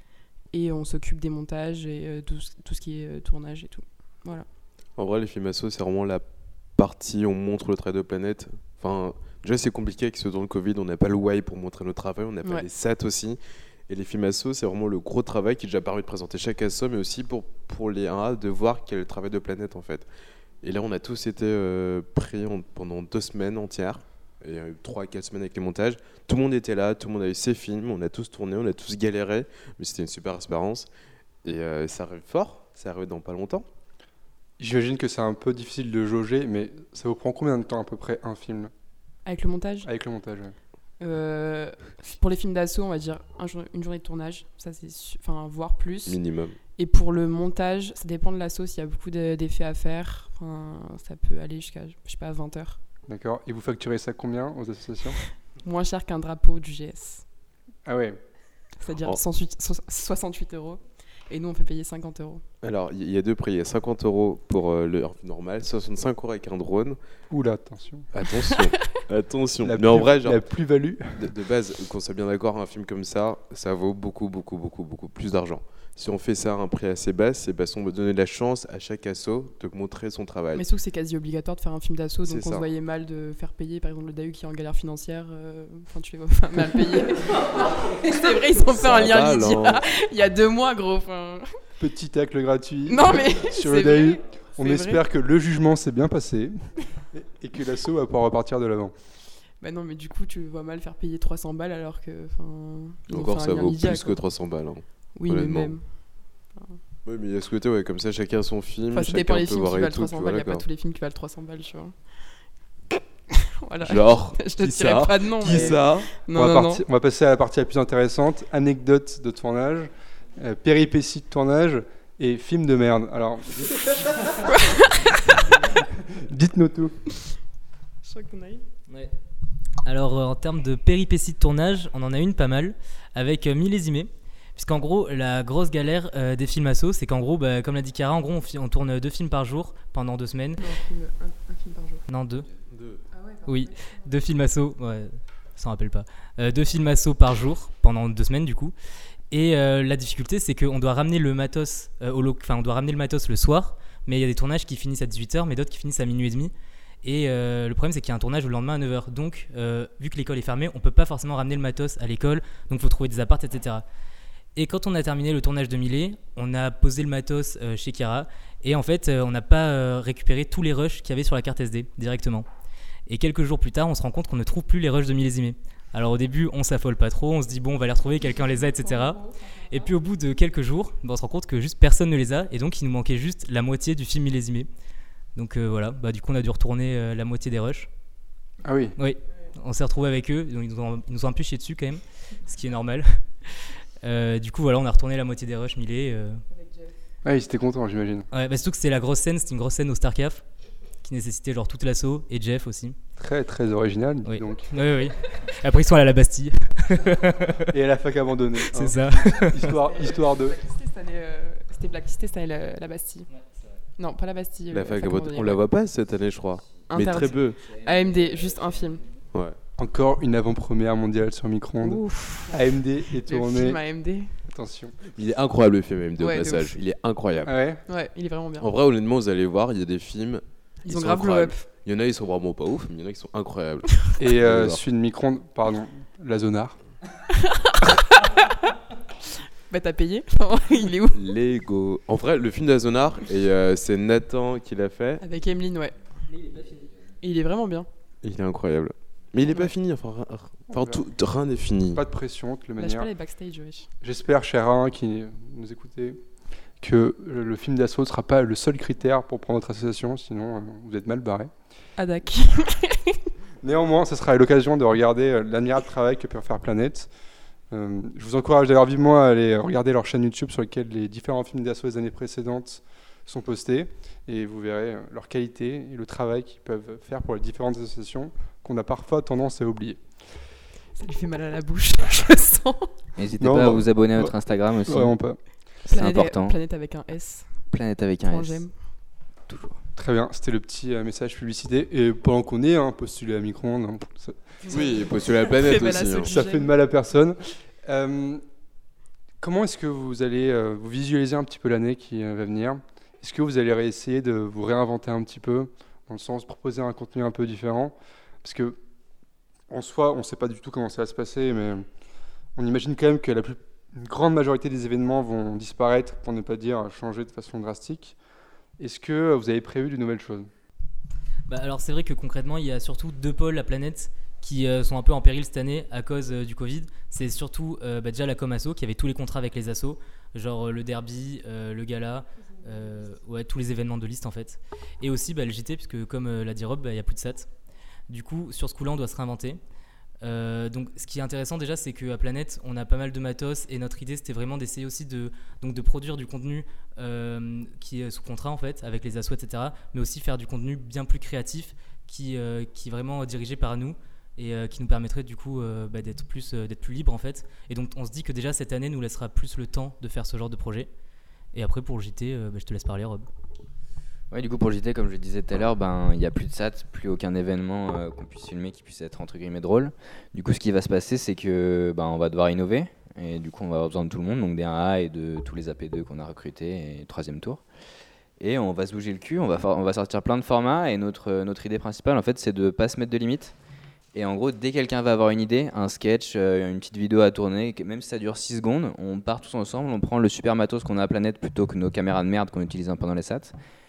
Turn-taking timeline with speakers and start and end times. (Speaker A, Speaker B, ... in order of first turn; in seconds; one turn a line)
Speaker A: 0.5-4.5
Speaker B: 5.0-6.2
Speaker B: 6.8-20.1
Speaker B: 20.6-30.9
Speaker B: 31.4-33.6
Speaker C: 34.6-38.7
Speaker A: 39.2-39.9
Speaker C: 39.8-40.5
Speaker A: 41.0-46.2
Speaker B: 46.0-46.6
Speaker A: 46.8-52.8
Speaker C: 53.1-55.2
Speaker A: 55.6-57.2
Speaker C: 57.9-58.2
Speaker A: 58.8-62.4
Speaker B: 62.6-67.0
Speaker C: 67.3-68.1
Speaker B: 68.1-70.4
Speaker A: 68.4-68.9
Speaker C: 69.6-71.4
Speaker B: 71.2-80.6
Speaker A: 80.5-91.4
Speaker B: 82.2-82.7
Speaker B: 88.7-89.8
Speaker C: 91.8-96.5
Speaker A: 92.8-95.0
Speaker C: 97.1-98.9
Speaker A: 99.6-104.2
Speaker B: 103.1-105.8
Speaker A: 105.2-105.8
Speaker B: 107.0-110.6
Speaker A: 108.9-111.9
Speaker A: 113.3-116.8
Speaker B: 113.8-116.2
Speaker C: 116.3-124.3
Speaker A: 124.4-125.2
Speaker C: 125.5-126.9
Speaker A: 128.0-128.6
Speaker D: 129.8-140.6
Speaker A: 140.6-142.0
Speaker D: 142.1-142.5
Speaker B: 142.7-143.0
Speaker A: 143.1-144.0
Speaker D: 143.4-148.7
Speaker D: 149.3-156.5
Speaker D: 157.0-163.8
Speaker D: 164.6-172.5
Speaker D: 173.1-184.7
Speaker A: 178.2-179.9
Speaker D: 185.3-187.9
Speaker C: 188.6-188.9
Speaker D: 189.0-193.1
Speaker D: 194.0-196.4
Speaker A: 196.5-196.9
Speaker C: 197.2-198.3
Speaker D: 198.3-200.4
Speaker D: 201.0-202.9
Speaker C: 203.2-204.7
Speaker D: 204.2-207.6
Speaker C: 207.7-210.6
Speaker D: 208.7-209.7
Speaker A: 209.7-213.3
Speaker A: 214.0-215.6
Speaker B: 214.7-217.6
Speaker A: 216.8-219.0
Speaker B: 219.3-219.6
Speaker C: 219.8-223.8
Speaker A: 221.8-224.3
Speaker C: 224.5-224.9
Speaker B: 225.1-227.5
Speaker A: 226.2-226.8
Speaker C: 227.4-227.8
Speaker A: 227.8-228.7
Speaker B: 228.6-234.8
Speaker A: 230.8-231.7
Speaker C: 234.1-236.8
Speaker A: 237.3-238.6
Speaker A: 239.2-241.2
Speaker B: 241.1-245.2
Speaker A: 245.2-245.9
Speaker A: 247.2-247.9
Speaker B: 248.2-252.0
Speaker A: 249.4-249.7
Speaker C: 250.7-251.0
Speaker C: 251.9-253.1
Speaker A: 252.8-253.9
Speaker C: 254.0-256.2
Speaker C: 256.8-261.5
Speaker A: 262.0-263.2
Speaker C: 263.6-267.1
Speaker C: 267.7-280.0
Speaker A: 280.9-282.9
Speaker E: 283.2-285.2
Speaker C: 283.4-284.3
Speaker C: 284.8-285.4
Speaker E: 285.9-286.6
Speaker A: 285.9-287.5
Speaker E: 287.7-288.6
Speaker A: 288.2-288.7
Speaker C: 289.9-294.6
Speaker A: 294.6-296.7
Speaker B: 294.7-296.3
Speaker C: 296.2-298.4
Speaker C: 299.4-308.8
Speaker C: 309.7-311.8
Speaker C: 312.6-318.2
Speaker C: 318.8-320.5
Speaker D: 321.5-337.5
Speaker D: 338.1-339.6
Speaker D: 340.2-360.9
Speaker D: 361.5-363.3
Speaker E: 364.3-377.6
Speaker E: 378.4-383.5
Speaker E: 384.1-393.5